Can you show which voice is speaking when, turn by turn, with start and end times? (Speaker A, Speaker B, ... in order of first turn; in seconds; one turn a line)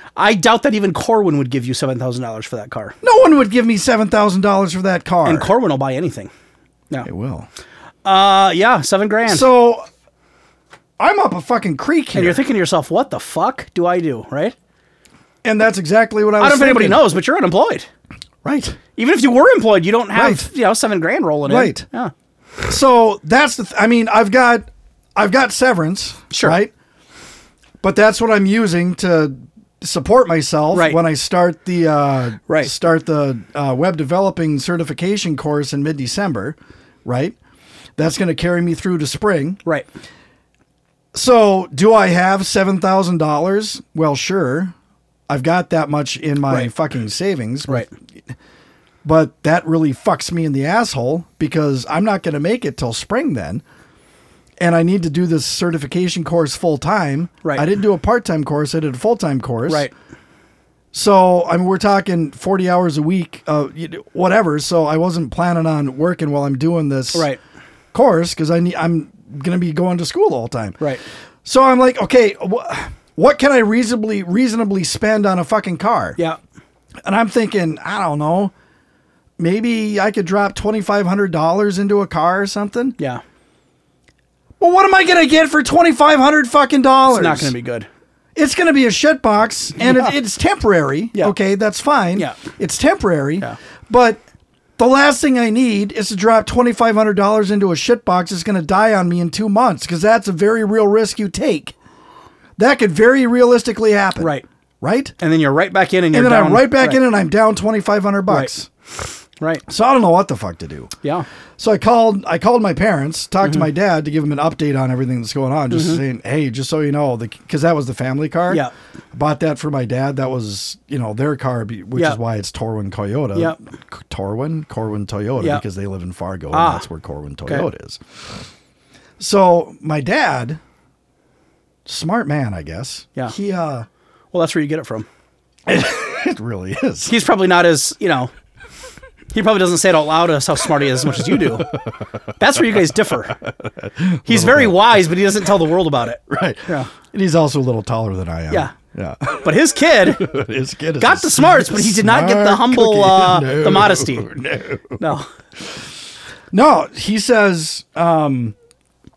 Speaker A: 0.2-3.0
Speaker B: 3.0-5.5
Speaker A: 5.2-6.3
Speaker B: 7.0-7.5
Speaker A: 8.0-9.5
Speaker B: 9.2-9.9
Speaker B: 11.0-12.4
Speaker A: 12.1-14.5
Speaker B: 15.4-17.1
Speaker A: 16.4-17.9
Speaker B: 18.4-18.8
Speaker A: 18.9-22.1
Speaker B: 20.1-20.5
Speaker B: 21.4-21.9
Speaker B: 22.6-26.7
Speaker A: 26.3-26.6
Speaker B: 27.8-37.4
Speaker A: 30.7-31.0
Speaker B: 38.0-39.6
Speaker B: 41.1-44.7
Speaker B: 45.3-47.9
Speaker B: 49.0-53.6
Speaker B: 54.6-59.9
Speaker B: 60.9-67.3
Speaker A: 67.1-67.4
Speaker B: 67.9-70.8
Speaker B: 71.4-76.2
Speaker B: 77.0-78.5
Speaker B: 79.4-83.0
Speaker B: 84.6-87.5
Speaker A: 87.1-87.9
Speaker B: 88.3-94.2
Speaker A: 89.8-90.1
Speaker B: 94.8-101.7
Speaker B: 102.6-105.2
Speaker A: 104.2-104.4
Speaker A: 105.2-107.0
Speaker B: 106.1-108.7
Speaker B: 109.7-110.9
Speaker B: 111.6-128.0
Speaker A: 115.7-116.0
Speaker A: 126.5-126.8
Speaker B: 129.2-130.6
Speaker B: 131.8-133.9
Speaker A: 134.3-135.1
Speaker B: 135.7-137.1
Speaker A: 137.1-138.3
Speaker A: 139.3-141.8
Speaker A: 142.4-143.4
Speaker B: 143.4-145.1
Speaker A: 144.2-146.9
Speaker B: 146.3-155.0
Speaker A: 149.4-150.3
Speaker A: 151.0-154.3
Speaker A: 155.0-155.3
Speaker B: 156.5-158.5